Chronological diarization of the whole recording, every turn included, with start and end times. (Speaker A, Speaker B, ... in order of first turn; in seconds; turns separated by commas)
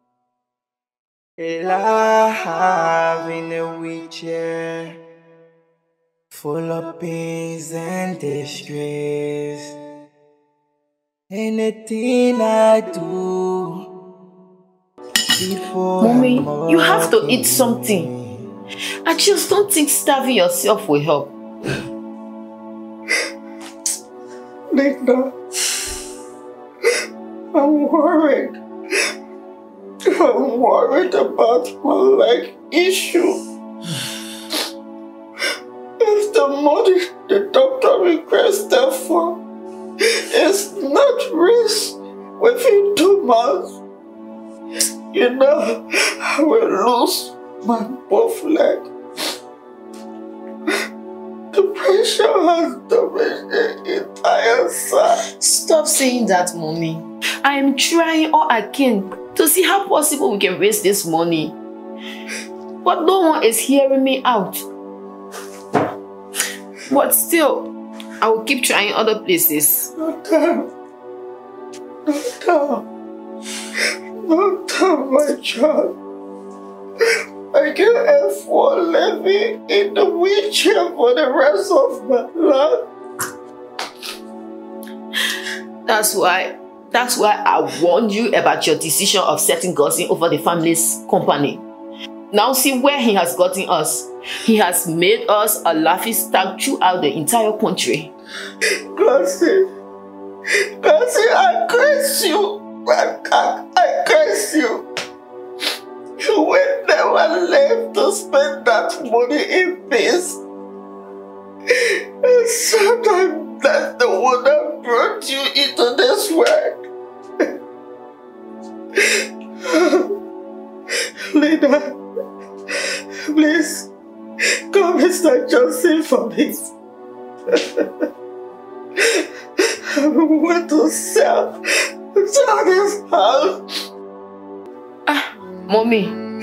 Speaker A: 1.4-5.0, Speaker A: 6.3-9.7, Speaker A: 11.3-13.9, Speaker A: 15.3-18.5, Speaker B: 16.0-18.1, Speaker B: 19.0-21.3, Speaker C: 24.7-25.8, Speaker C: 27.5-28.6, Speaker C: 30.1-33.4, Speaker C: 36.0-39.4, Speaker C: 40.0-43.8, Speaker C: 45.1-48.9, Speaker C: 51.5-55.2, Speaker B: 55.2-61.5, Speaker B: 62.8-64.6, Speaker B: 66.9-69.9, Speaker C: 70.0-70.7, Speaker C: 72.0-72.8, Speaker C: 74.2-75.9, Speaker C: 77.5-82.9, Speaker B: 85.8-91.6, Speaker B: 92.3-98.1, Speaker C: 98.6-99.7, Speaker C: 100.6-104.9, Speaker C: 106.2-110.4, Speaker C: 111.7-116.8, Speaker C: 118.9-120.1, Speaker C: 121.3-122.0, Speaker C: 123.3-123.9, Speaker C: 124.7-126.7, Speaker C: 127.5-127.9, Speaker C: 129.0-133.9, Speaker B: 135.1-136.2